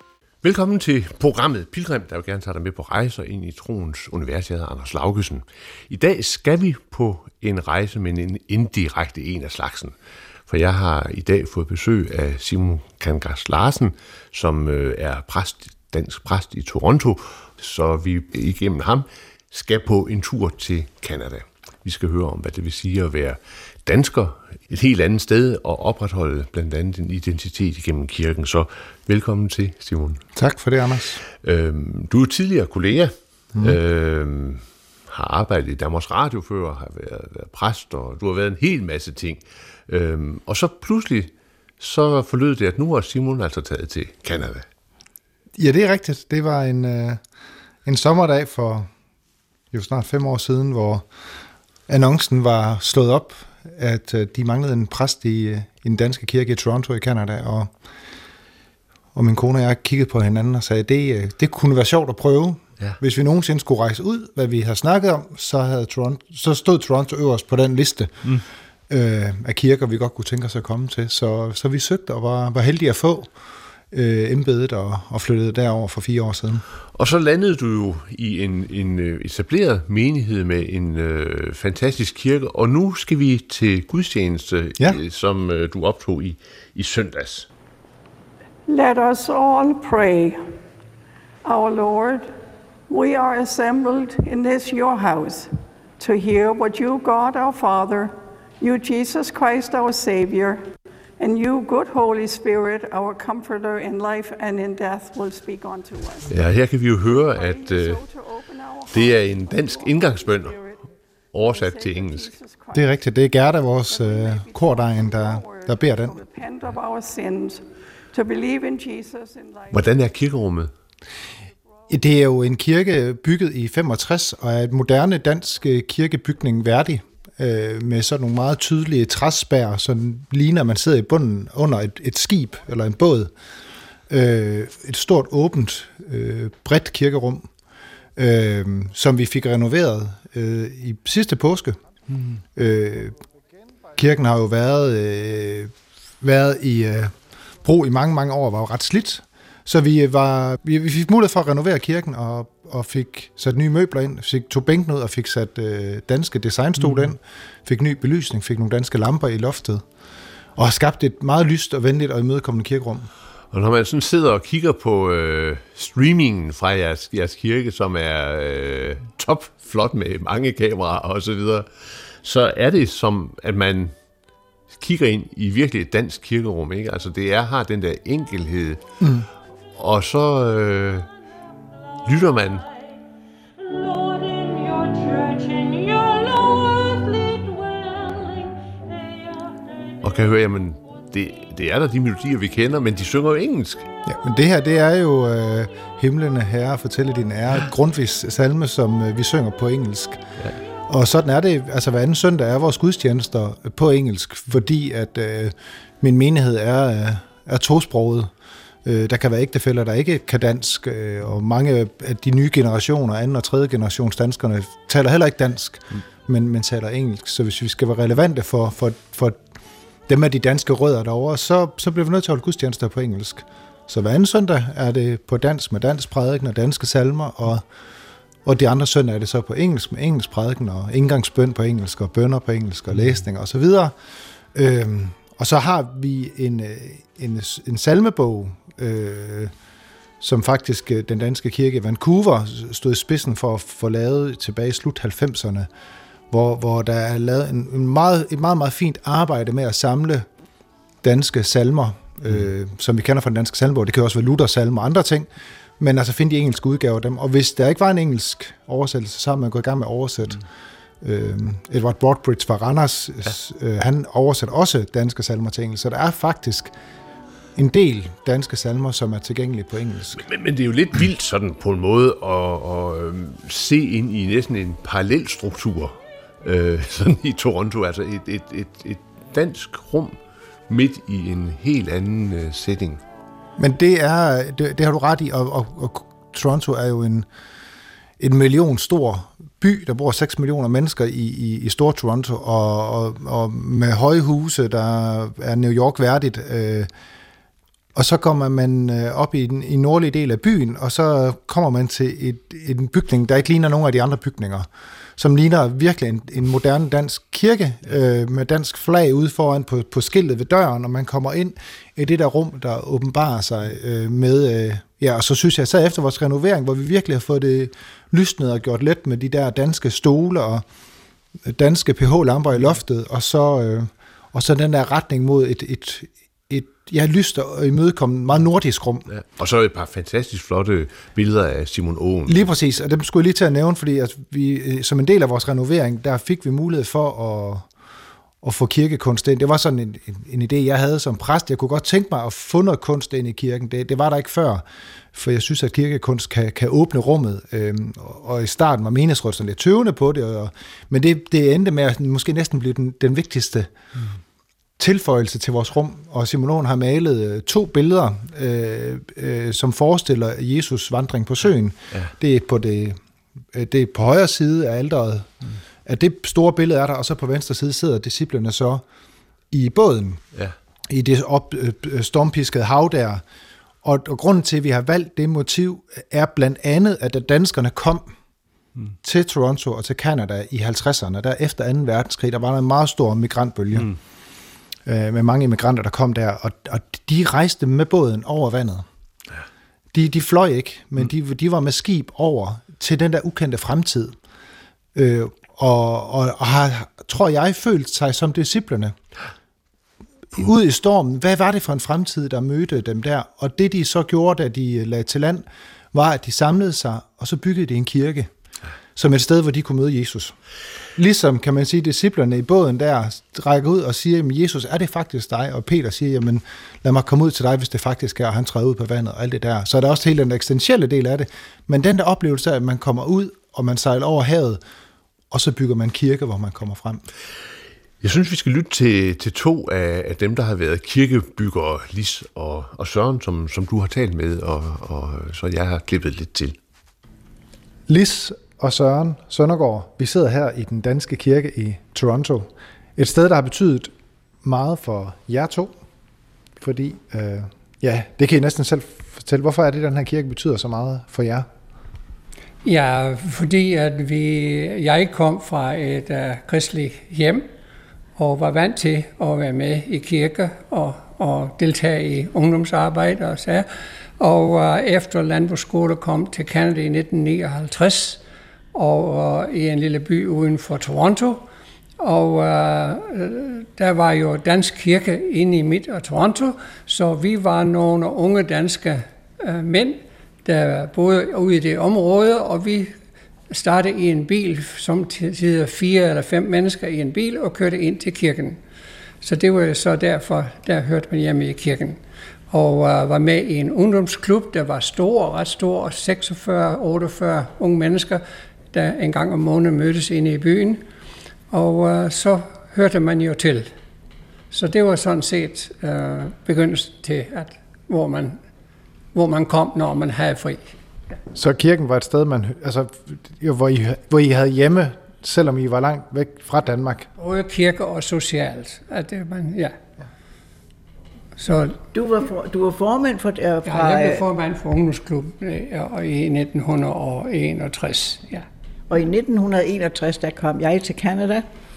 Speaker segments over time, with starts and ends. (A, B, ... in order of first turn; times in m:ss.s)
0:00.4-0:09.9 A
0:10.5-0:30.2 A
0:30.4-0:31.2 B
0:31.4-0:44.6 A
0:45.6-0:47.2 B
0:47.8-0:48.9 B
0:49.7-0:51.1 B
0:51.9-0:57.7 B
0:59.1-1:08.3 B
1:08.9-1:13.3 B
1:13.9-1:16.6 B
1:16.9-1:27.5 A
1:28.7-1:30.4 C
1:31.4-1:32.3 C
1:32.9-1:40.6 C
1:41.2-1:46.4 C
1:46.3-1:48.0 A
1:47.0-1:50.8 C
1:48.9-1:50.6 A
1:51.3-1:52.3 A
1:51.4-1:52.9 C
1:52.7-1:56.2 B
1:53.9-2:00.0 C
1:59.7-2:00.7 A
2:01.9-2:13.3 B
2:14.1-2:17.5 B
2:18.2-2:21.8 B
2:22.5-2:23.2 B
2:23.9-2:39.8 B
2:40.6-2:43.1 B
2:43.5-2:53.9 A
2:54.7-2:58.8 A
2:59.0-2:59.3 B
2:59.7-3:01.1 A
3:02.0-3:02.7 A
3:03.6-3:09.3 C
3:10.0-3:13.9 A
3:14.0-3:20.2 B
3:20.9-3:28.3 B
3:28.8-3:39.4 B
3:40.1-3:47.6 B
3:48.4-3:54.0 B
3:54.5-3:59.5 B
4:00.2-4:05.7 B
4:06.3-4:10.3 B
4:11.0-4:20.4 B
4:21.0-4:26.7 B
4:27.5-4:30.2 B
4:30.2-4:40.2 A
4:40.7-4:43.0 A
4:43.6-4:47.3 B
4:48.2-4:56.9 B
4:57.9-5:20.6 B
5:21.4-5:29.1 B
5:29.1-5:32.5 A
5:32.3-5:37.7 B
5:38.4-5:53.7 B
5:54.8-6:03.0 B
6:03.5-6:05.3 B
6:05.8-6:08.8 B
6:09.5-6:10.2 B
6:10.9-6:13.2 B
6:13.8-6:18.1 B
6:19.0-6:23.9 B
6:24.8-6:28.8 B
6:29.9-6:34.2 B
6:34.9-6:39.0 B
6:40.3-6:48.3 B
6:48.9-6:50.4 B
6:51.0-7:04.6 B
7:05.3-7:07.0 B
7:08.0-7:16.6 A
7:17.9-7:23.9 B
7:24.4-7:25.8 B
7:26.6-7:31.5 B
7:32.6-7:37.5 D
7:38.2-7:43.7 D
7:44.2-7:48.2 D
7:48.7-7:51.4 D
7:52.0-8:02.9 D
8:03.5-8:08.6 D
8:09.2-8:20.8 D
8:21.5-8:23.7 D
8:24.5-8:28.4 D
8:29.1-8:30.7 D
8:31.3-8:37.1 B
8:37.2-8:39.8 D
8:41.4-8:41.8 D
8:41.9-8:44.2 E
8:43.6-8:48.4 D
8:48.9-8:51.4 E